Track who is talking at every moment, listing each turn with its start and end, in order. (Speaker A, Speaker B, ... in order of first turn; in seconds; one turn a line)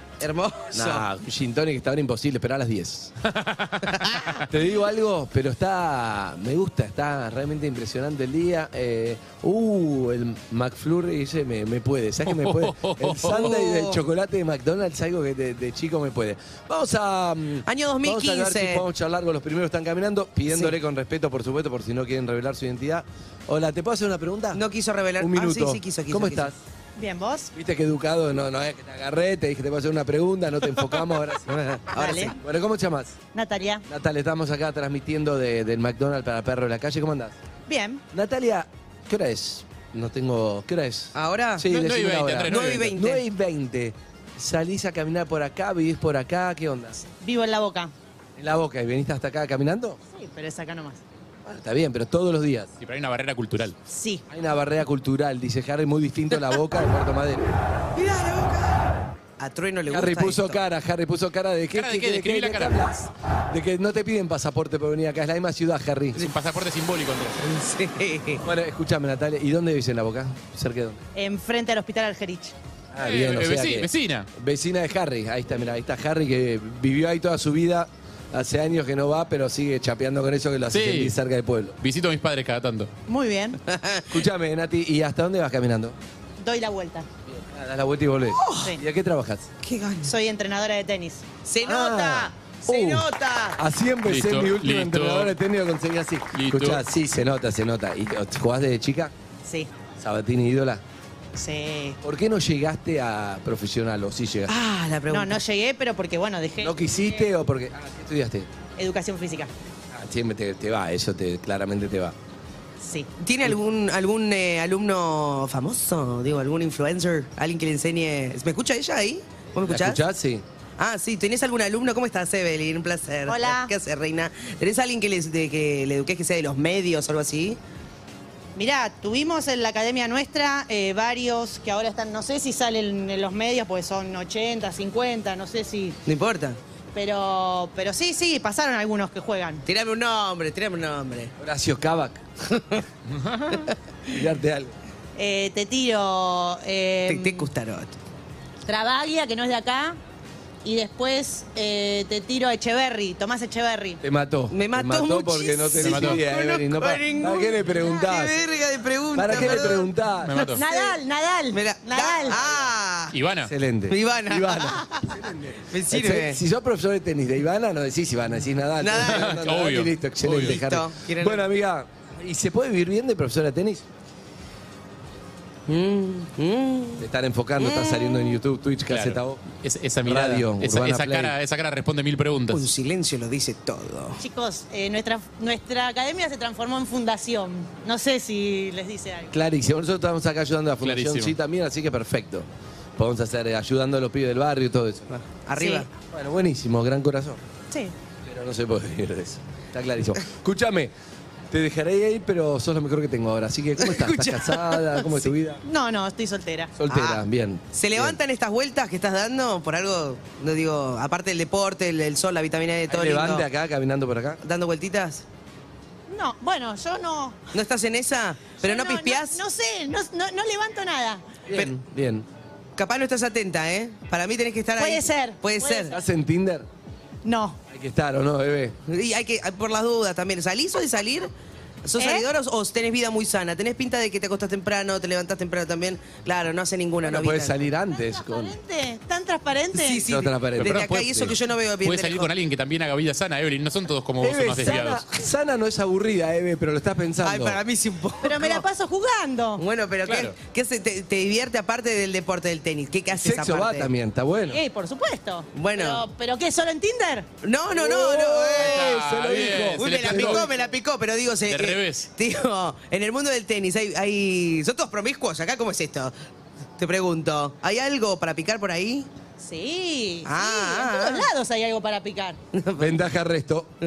Speaker A: 0.2-1.0
Speaker B: 0.7-3.1
Speaker C: 3.3-4.1
Speaker A: 4.1-4.4
Speaker B: 4.5-24.6
Speaker C: 12.2-13.5
Speaker A: 13.3-14.0
Speaker A: 17.6-18.8
Speaker A: 24.5-26.5
Speaker B: 25.2-26.6
Speaker D: 26.9-27.5
Speaker B: 27.5-31.6
Speaker A: 31.5-32.4
Speaker D: 31.9-32.3
Speaker B: 32.4-33.1
Speaker D: 33.3-33.8
Speaker B: 33.9-37.3
Speaker D: 37.7-38.0
Speaker B: 38.1-47.0
Speaker A: 41.1-41.6
Speaker C: 41.7-42.9
Speaker A: 42.5-43.2
Speaker D: 47.2-47.9
Speaker B: 48.4-50.0
Speaker D: 50.1-51.0
Speaker B: 51.4-52.7
Speaker C: 52.8-53.8
Speaker D: 53.9-54.2
Speaker B: 54.3-57.5
Speaker A: 58.0-60.6
Speaker B: 59.9-66.2
Speaker C: 61.7-62.9
Speaker C: 66.2-67.4
Speaker A: 67.4-68.4
Speaker B: 68.4-71.0
Speaker D: 71.1-72.5
Speaker B: 72.9-81.8
Speaker C: 73.0-74.3
Speaker C: 80.7-81.1
Speaker C: 81.8-82.9
Speaker D: 83.1-83.6
Speaker A: 83.7-84.2
Speaker B: 84.1-86.0
Speaker D: 86.4-87.1
Speaker B: 87.3-89.5
Speaker A: 89.6-90.1
Speaker D: 90.0-91.2
Speaker A: 91.4-93.6
Speaker B: 91.6-99.1
Speaker C: 94.0-95.3
Speaker C: 96.3-96.8
Speaker D: 99.4-99.7
Speaker B: 100.0-100.8
Speaker D: 101.3-102.0
Speaker B: 102.0-104.5
Speaker A: 104.5-105.4
Speaker D: 105.1-107.3
Speaker B: 106.6-108.5
Speaker D: 108.8-109.5
Speaker B: 109.9-112.2
Speaker D: 112.8-113.1
Speaker A: 113.2-120.0
Speaker B: 119.6-120.4
Speaker A: 120.8-127.6
Speaker D: 123.3-123.7
Speaker D: 128.6-136.0
Speaker A: 136.1-136.6
Speaker D: 136.9-139.6
Speaker A: 139.7-141.3
Speaker B: 141.4-142.2
Speaker A: 142.5-142.8
Speaker C: 143.2-143.5
Speaker A: 143.5-144.2
Speaker B: 144.1-144.7
Speaker D: 145.2-147.5
Speaker A: 147.1-148.0
Speaker D: 148.7-150.0
Speaker D: 150.6-154.0
Speaker B: 154.0-158.4
Speaker A: 154.5-159.9
Speaker C: 155.8-156.2
Speaker B: 159.1-160.5
Speaker C: 160.2-160.6
Speaker D: 160.6-162.4
Speaker A: 160.6-161.0
Speaker A: 161.5-163.1
Speaker B: 162.3-162.7
Speaker C: 163.1-163.5
Speaker B: 163.4-173.8
Speaker A: 163.9-166.4
Speaker A: 168.8-169.4
Speaker C: 169.0-170.6
Speaker A: 170.4-171.4
Speaker A: 175.7-177.0
Speaker B: 177.0-179.4
Speaker A: 177.6-178.4
Speaker C: 178.9-182.7
Speaker B: 180.0-181.3
Speaker A: 182.5-184.2
Speaker D: 184.2-189.3
Speaker B: 189.3-195.1
Speaker C: 190.8-191.3
Speaker A: 195.1-195.9
Speaker D: 195.6-195.8
Speaker B: 196.1-197.4
Speaker B: 198.2-200.9
Speaker B: 201.5-205.6
Speaker A: 203.8-205.3
Speaker D: 205.6-206.7
Speaker B: 206.8-208.2
Speaker A: 206.9-207.2
Speaker A: 207.7-213.4
Speaker B: 212.9-214.4
Speaker A: 214.4-215.2
Speaker D: 216.1-217.4
Speaker A: 217.5-219.4
Speaker D: 218.6-221.2
Speaker B: 221.5-222.3
Speaker A: 222.8-225.9
Speaker D: 224.8-225.9
Speaker B: 225.9-226.7
Speaker D: 227.2-227.6
Speaker B: 227.7-228.8
Speaker A: 228.9-231.3
Speaker A: 231.8-237.6
Speaker D: 232.0-232.2
Speaker B: 237.0-238.5
Speaker D: 237.9-240.0
Speaker A: 239.7-242.3
Speaker B: 240.1-241.3
Speaker C: 240.6-245.0
Speaker B: 244.2-247.6
Speaker A: 247.2-248.6
Speaker D: 248.2-249.6
Speaker A: 249.6-253.9
Speaker C: 250.0-250.3
Speaker B: 253.1-254.6
Speaker D: 254.5-257.3
Speaker A: 255.5-256.0
Speaker A: 257.4-266.1
Speaker B: 257.7-260.5
Speaker C: 258.6-260.5
Speaker C: 261.5-262.1
Speaker A: 266.8-269.1
Speaker D: 269.4-272.4
Speaker A: 270.2-271.3
Speaker A: 272.5-272.9
Speaker B: 272.8-273.7